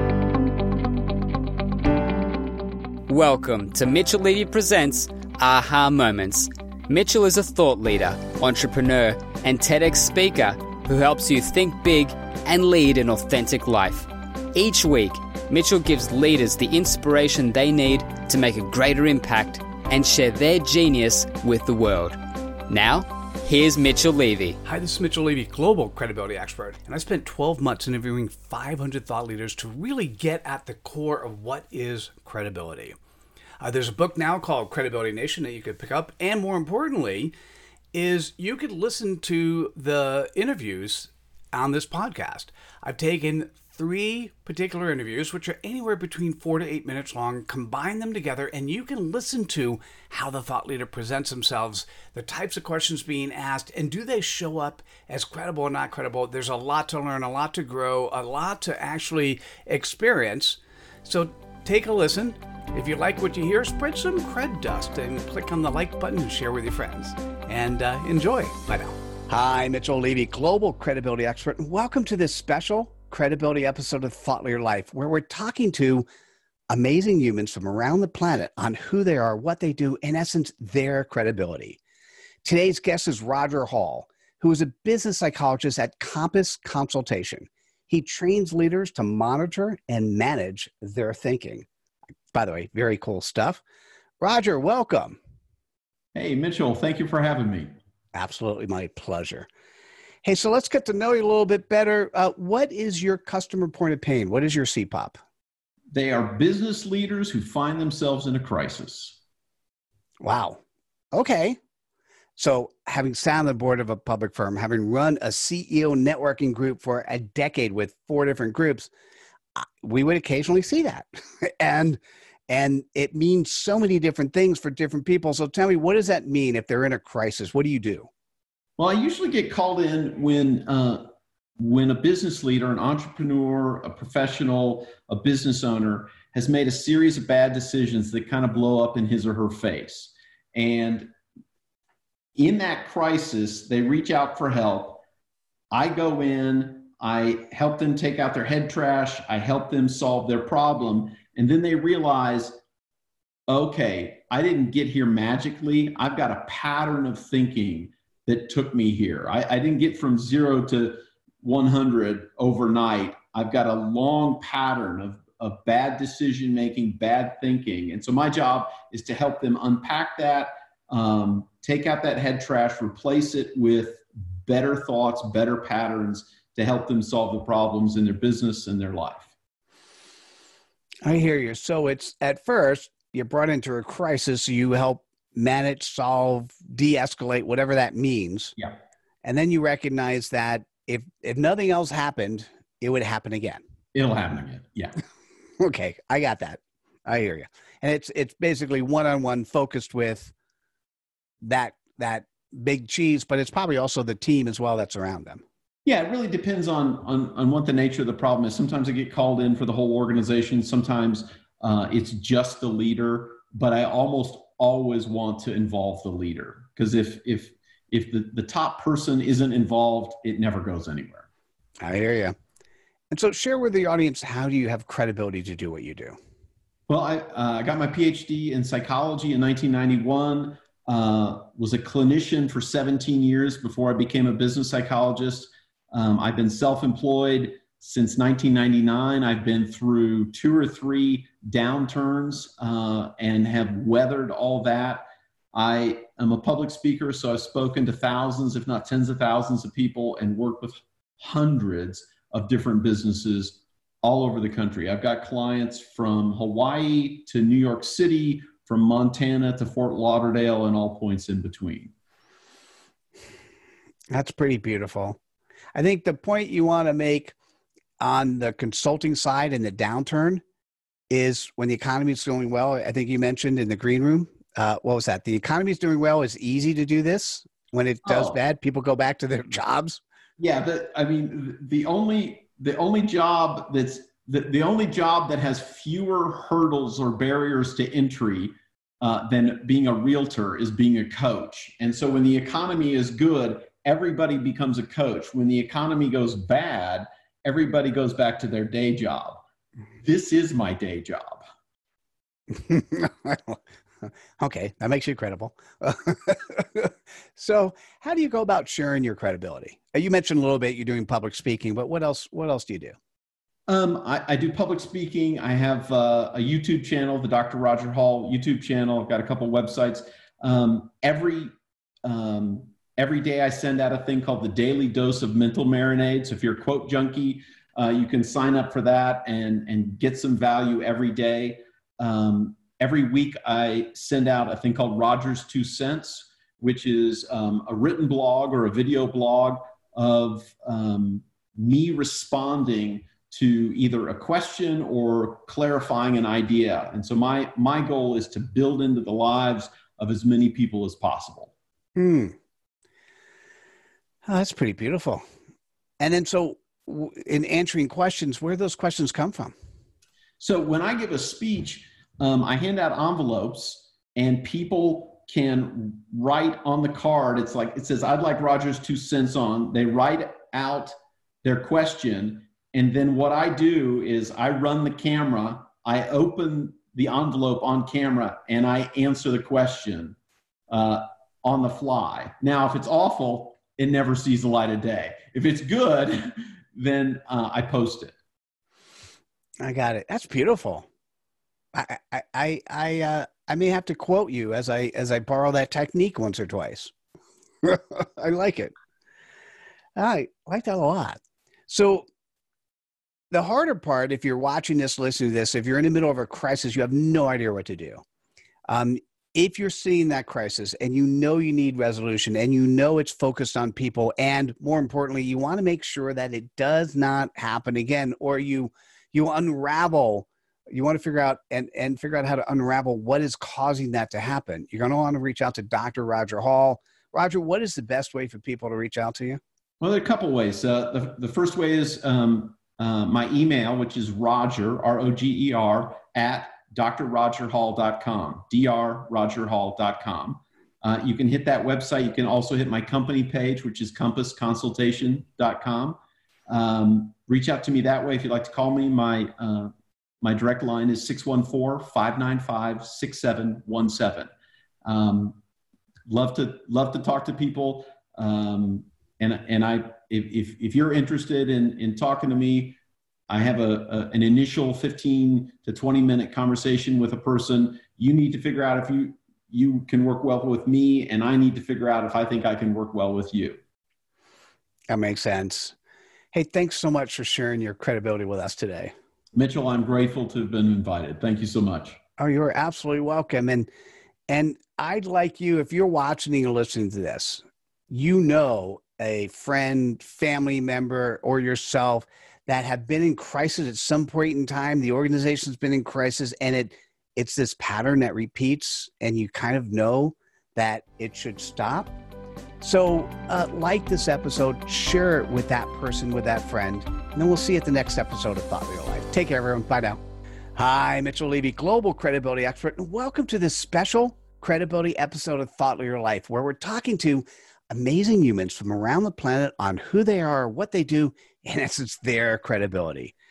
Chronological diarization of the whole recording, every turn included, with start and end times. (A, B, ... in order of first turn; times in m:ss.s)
0:03.1-0:24.6 A
0:24.6-0:33.0 B
0:33.6-0:37.3 B
0:37.9-1:16.0 B
1:16.7-1:21.8 B
1:22.4-1:31.6 B
1:32.3-1:33.6 B
1:34.2-1:35.2 B
1:36.1-1:37.7 C
1:38.1-1:39.5 B
1:40.2-1:45.2 B
1:45.9-1:49.2 C
1:50.2-1:50.6 B
1:51.1-1:51.6 B
1:52.4-1:58.9 B
1:59.6-2:08.1 B
2:08.8-2:21.1 C
2:22.4-2:25.0 C
2:25.7-2:32.6 C
2:33.5-2:59.3 C
3:01.0-3:08.5 B
3:09.2-3:13.6 B
3:13.9-3:15.0 C
3:15.6-3:20.3 B
3:21.4-3:25.4 B
3:25.8-3:41.3 C
3:41.8-3:42.3 B
3:43.1-3:46.2 B
3:46.9-4:21.9 C
4:24.1-4:25.2 B
4:25.7-4:27.3 B
4:28.0-4:30.4 B
4:31.1-4:40.0 B
4:38.0-4:38.4 C
4:40.4-4:59.4 C
5:00.0-5:01.4 C
5:02.5-5:12.9 B
5:13.7-5:21.5 C
5:22.0-5:51.5 C
5:52.0-5:52.4 B
5:54.2-5:55.2 B
5:56.0-5:59.5 B
6:00.4-6:20.2 C
6:20.7-6:28.1 C
6:29.6-6:30.9 B
6:31.7-6:36.9 B
6:37.6-6:38.7 B
6:40.0-6:42.0 B
6:43.3-6:48.0 B
6:48.7-7:09.4 B
7:09.8-7:34.3 C
7:34.8-7:35.4 C
7:36.1-7:42.8 C
7:43.3-7:53.6 C
7:54.9-7:55.7 B
7:56.3-7:58.9 B
7:59.3-8:02.0 C
8:02.2-8:03.7 B
8:04.3-8:21.9 B
8:22.6-8:30.0 B
8:30.6-8:43.1 B